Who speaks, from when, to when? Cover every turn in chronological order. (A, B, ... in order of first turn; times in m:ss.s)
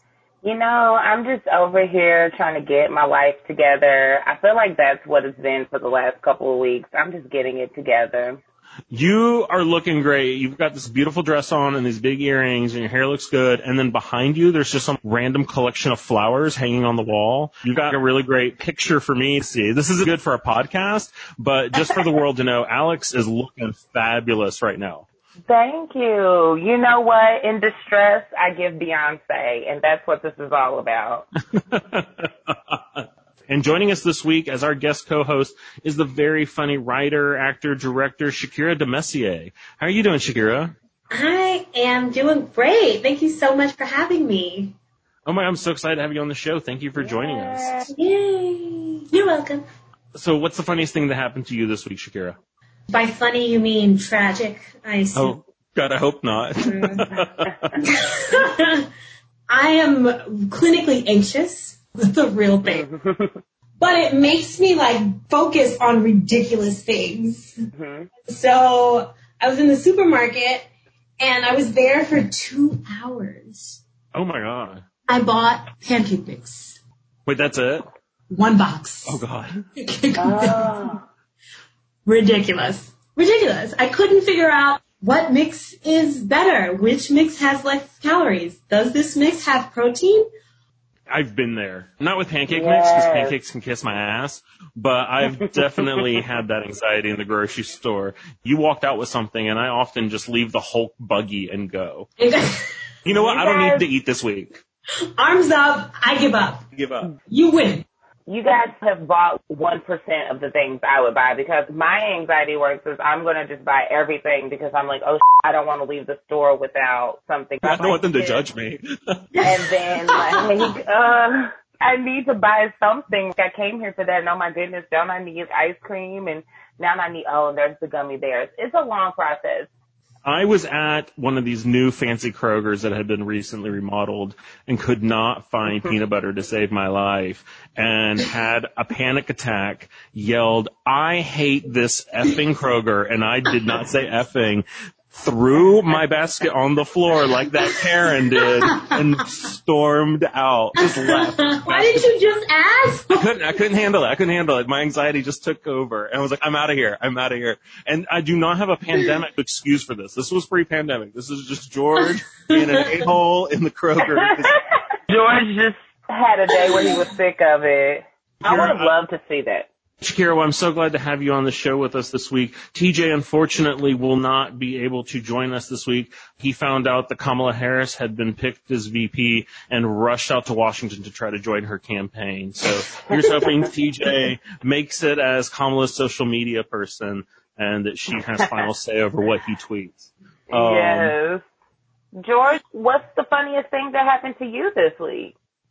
0:00.4-0:08.4 A
0:08.9-0:25.1 B
0:25.5-0:31.3 A
0:31.6-0:40.7 B
0:41.1-0:44.8 C
0:45.2-0:47.8 B
0:47.0-0:47.9 A
0:47.9-0:49.6 C
0:50.1-0:52.4 B
0:52.9-0:55.4 C
0:55.2-0:57.8 B
0:56.6-0:57.1 C
0:57.8-0:58.9 C
0:59.5-1:02.8 C
1:02.6-1:03.4 A
1:03.8-1:07.5 C
1:07.7-1:08.1 A
1:08.3-1:10.7 C
1:11.2-1:13.8 C
1:14.1-1:14.8 B
1:15.1-1:16.8 C
1:17.2-1:17.9 B
1:18.3-1:19.2 C
1:19.1-1:19.6 B
1:19.8-1:20.9 C
1:20.2-1:21.0 A
1:22.0-1:30.3 C
1:31.1-1:42.1 B
1:32.5-1:33.3 A
1:35.9-1:36.2 A
1:42.2-1:42.8 C
1:43.0-1:44.6 B
1:43.1-1:43.8 A
1:45.2-1:46.6 C
1:46.8-1:47.1 B
1:47.3-1:47.8 C
1:48.3-1:58.4 A
1:57.6-1:59.2 B
1:59.3-2:00.6 C
1:59.4-2:09.7 A
2:10.2-2:32.1 B
2:28.4-2:28.9 C
2:30.8-2:33.3 C
2:33.1-2:44.6 B
2:42.0-2:43.0 C
2:44.0-2:44.5 A
2:45.1-2:49.7 A
2:48.4-2:48.9 B
2:50.0-3:11.1 B
3:03.1-3:03.7 A
3:10.5-3:11.4 A
3:12.2-3:15.3 A